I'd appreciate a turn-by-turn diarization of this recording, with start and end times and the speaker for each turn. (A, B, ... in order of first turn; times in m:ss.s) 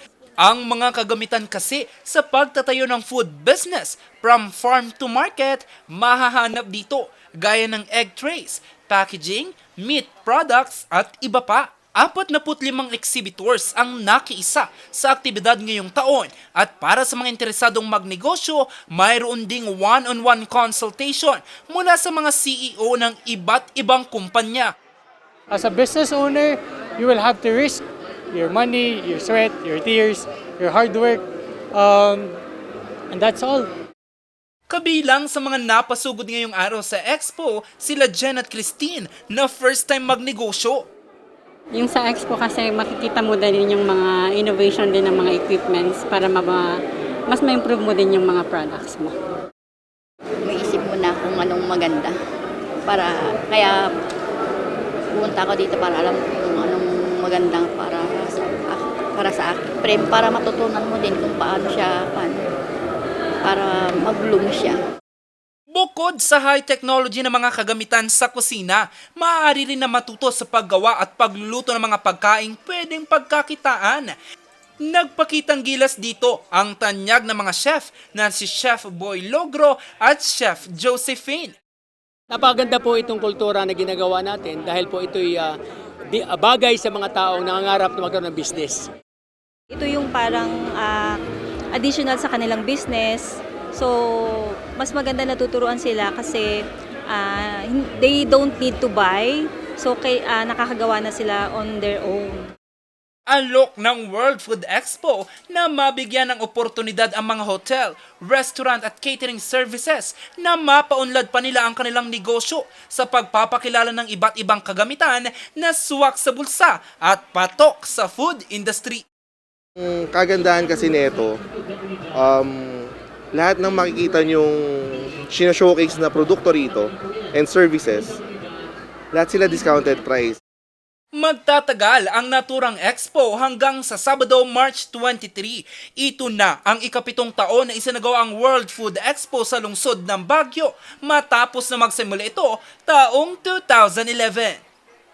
0:00.4-0:24.7 A
0:25.5-0:27.8 B
0:28.3-0:31.2 B
0:31.7-0:32.4 B
0:33.1-0:33.7 B
0:34.7-0:40.9 A
0:41.7-0:46.7 C
0:47.3-0:49.1 C
0:50.4-0:52.2 D
0:52.9-0:53.8 D
0:55.2-1:02.4 D
1:03.5-1:04.8 D
1:05.7-1:14.2 A
1:14.8-1:21.5 A
1:22.3-1:25.5 E
1:26.1-1:28.9 E
1:29.7-1:31.2 F
1:31.8-1:33.9 F
1:34.8-1:36.4 F
1:37.1-1:42.5 F
1:43.3-1:59.0 A
1:59.8-2:01.4 G
2:02.1-2:08.2 G
2:09.1-2:10.4 G
2:11.2-2:24.6 A